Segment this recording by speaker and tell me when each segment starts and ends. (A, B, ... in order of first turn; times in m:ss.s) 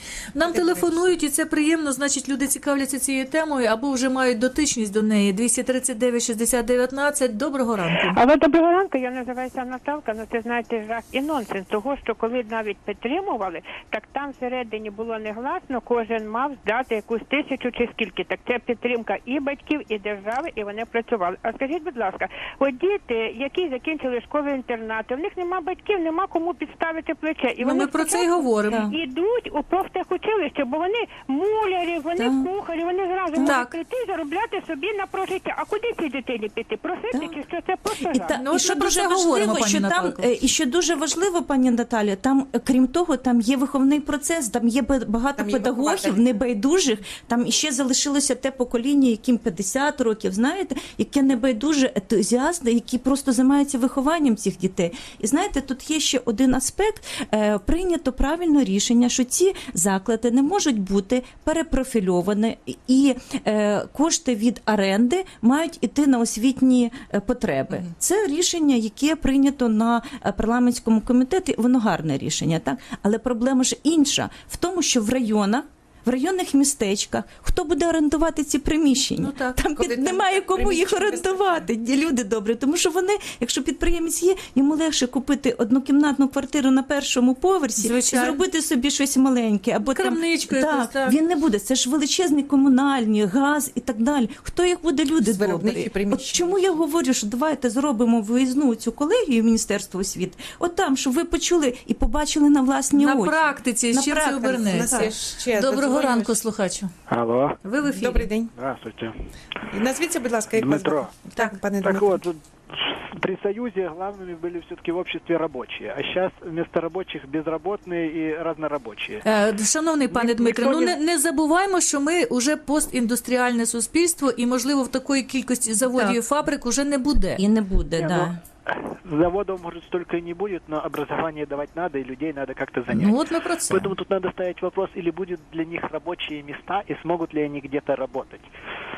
0:00.3-0:08.2 A
0:00.4-0:01.1 B
0:08.0-0:38.4 C
0:27.6-0:28.9 A
0:28.7-0:29.0 D
0:32.2-0:32.5 D
0:33.3-0:33.6 D
0:33.4-0:33.7 A
0:37.1-0:37.4 D
0:38.0-1:45.1 D
0:38.4-0:40.2 A
0:45.4-0:46.2 B
1:19.2-1:19.6 A
1:19.8-1:21.6 B
1:27.8-1:28.4 A
1:29.8-1:31.2 A
1:35.2-1:36.7 B
1:42.9-1:45.0 A
1:44.7-1:46.3 B
1:45.5-1:46.9 A
1:47.1-1:47.6 E
1:47.6-1:48.3 A
1:47.9-1:48.5 B
1:48.5-1:49.1 E
1:49.6-1:52.2 B
1:50.6-1:51.2 E
1:51.8-1:59.2 E
1:59.2-2:07.4 A
2:00.1-2:01.0 E
2:05.9-2:06.2 D
2:07.4-2:08.4 D
2:08.0-2:18.5 E
2:12.9-2:13.9 A